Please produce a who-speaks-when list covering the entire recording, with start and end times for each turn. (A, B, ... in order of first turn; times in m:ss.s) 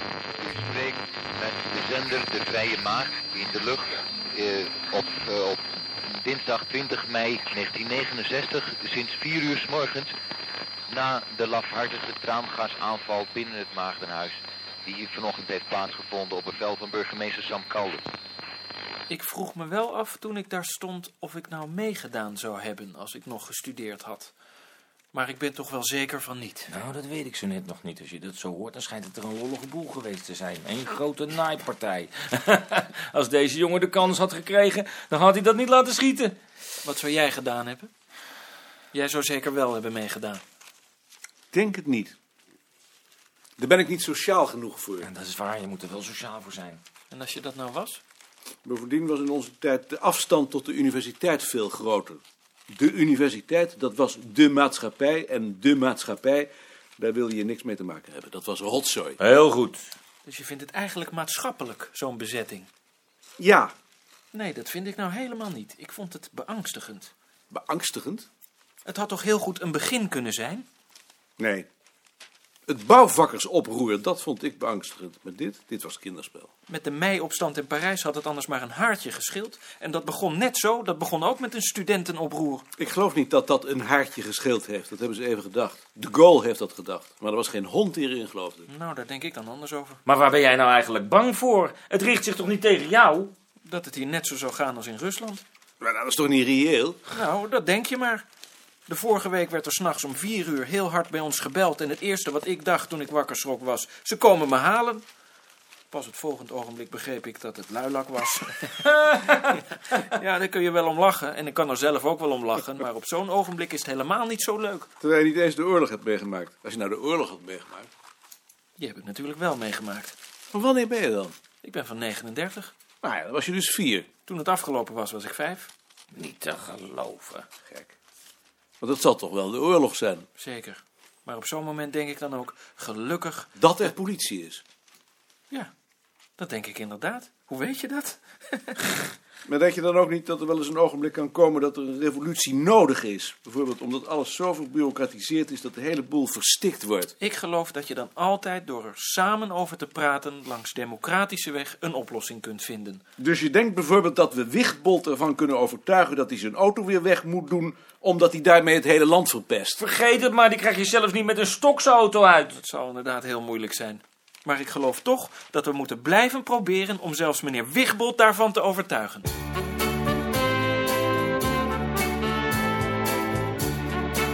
0:00.4-0:05.6 A
0:06.2-0:10.1 A
0:10.9-0:18.0 A
0:19.1-0:24.3 B
0:25.1-0:26.7 B
0:26.7-0:36.3 C
0:36.8-0:37.9 B
0:38.9-0:40.4 B
0:41.5-0:42.2 D
0:43.6-0:45.1 D
0:45.0-0:46.8 C
0:47.1-0:48.0 B
0:48.6-0:59.2 D
0:59.2-0:59.7 C
1:00.2-1:02.7 B
1:03.4-1:03.7 D
1:04.3-1:07.1 B
1:07.5-1:08.3 D
1:08.8-1:10.7 B
1:11.4-1:11.7 D
1:12.7-1:16.5 D
1:16.7-1:22.6 B
1:22.8-1:28.7 D
1:28.7-1:30.0 B
1:30.0-1:33.3 C
1:33.6-1:35.4 B
1:35.8-1:37.0 D
1:37.1-1:38.2 B
1:38.9-1:45.0 B
1:45.9-1:54.9 B
1:55.0-1:57.9 D
1:58.8-2:00.1 B
2:00.5-2:01.3 D
2:01.6-2:02.7 B
2:03.0-2:04.1 D
2:04.2-2:05.7 B
2:06.1-2:07.4 C
2:07.6-2:07.9 D
2:08.8-2:10.3 D
2:10.4-2:13.5 B
2:13.6-2:14.6 D
2:16.4-2:18.8 B
2:19.4-2:27.1 D
2:27.2-2:33.0 B
2:33.2-2:39.8 D
2:39.8-2:42.5 C
2:42.5-2:49.3 B